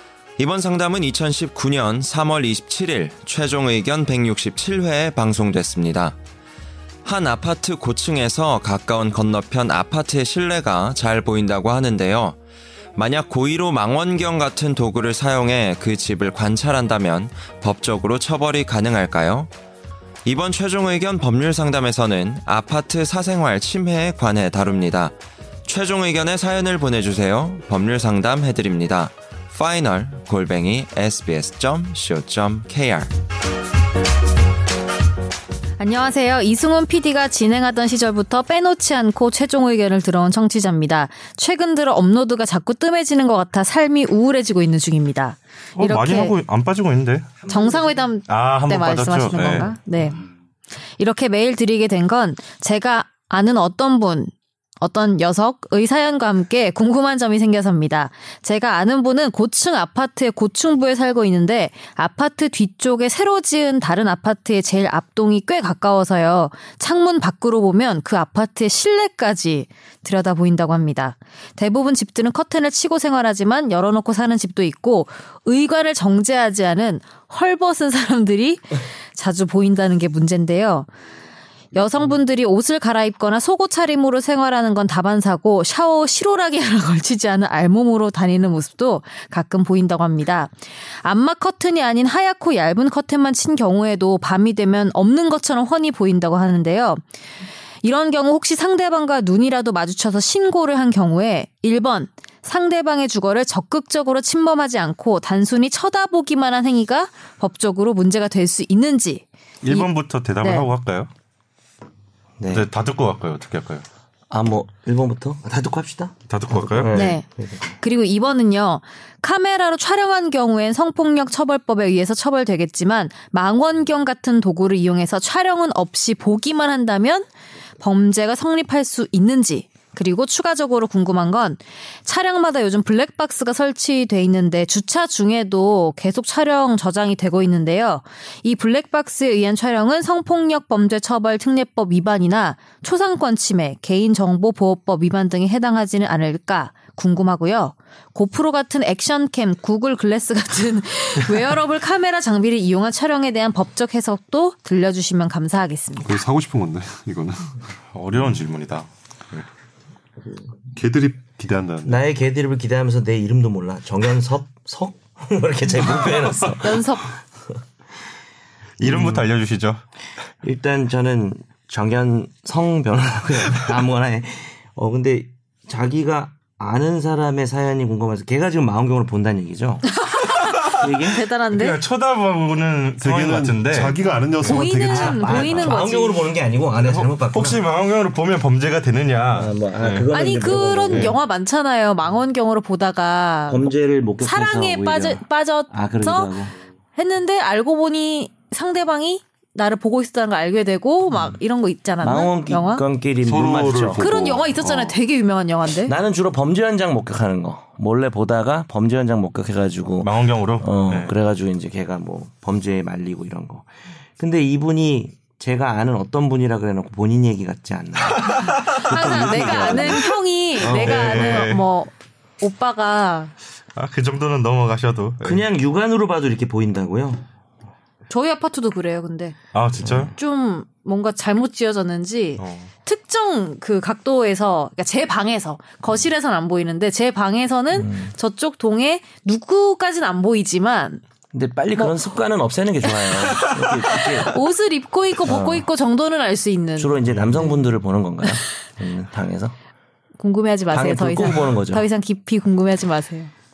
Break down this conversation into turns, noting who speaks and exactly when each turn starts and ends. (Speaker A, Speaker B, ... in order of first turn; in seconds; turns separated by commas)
Speaker A: 0.4-6.2, Speaker A: 7.0-12.4, Speaker A: 12.9-19.5, Speaker A: 20.2-25.1, Speaker A: 25.6-33.1, Speaker B: 35.8-46.4, Speaker C: 45.8-47.4, Speaker D: 47.4-48.0, Speaker B: 47.5-50.2, Speaker C: 48.3-49.7, Speaker B: 51.0-80.9, Speaker B: 81.7-97.0, Speaker B: 97.8-109.9, Speaker C: 109.6-111.1, Speaker B: 110.4-110.7, Speaker D: 112.4-112.7, Speaker C: 112.5-113.8, Speaker D: 114.3-117.8, Speaker C: 116.3-117.1, Speaker B: 116.9-117.2, Speaker B: 117.8-127.3, Speaker B: 127.8-156.1, Speaker E: 156.0-157.6, Speaker C: 157.9-159.4, Speaker E: 160.7-162.0, Speaker D: 161.8-166.9, Speaker B: 166.6-167.1, Speaker C: 168.8-169.8, Speaker D: 168.8-169.3, Speaker D: 170.4-179.9, Speaker B: 180.1-180.4, Speaker D: 180.6-181.2, Speaker B: 181.0-181.8, Speaker C: 181.5-184.0, Speaker E: 183.0-185.8, Speaker B: 184.4-186.3, Speaker D: 184.5-187.6, Speaker C: 186.7-190.1, Speaker D: 189.3-191.2, Speaker B: 190.1-202.8, Speaker C: 190.9-191.2, Speaker D: 193.5-196.5, Speaker D: 202.0-204.0, Speaker E: 203.2-204.6, Speaker B: 203.9-205.9, Speaker D: 204.6-204.9, Speaker D: 205.8-221.4, Speaker C: 210.0-211.1, Speaker C: 218.0-221.6, Speaker B: 218.6-223.3, Speaker C: 223.8-225.5, Speaker D: 225.2-227.2, Speaker B: 228.1-229.4, Speaker C: 229.5-230.1, Speaker D: 229.8-230.1, Speaker B: 230.1-241.0, Speaker C: 232.3-232.7, Speaker D: 237.7-238.1, Speaker D: 241.3-244.3, Speaker B: 242.8-243.4, Speaker B: 244.1-247.0, Speaker D: 245.2-245.7, Speaker D: 246.8-249.5, Speaker B: 250.2-253.3, Speaker D: 250.7-251.9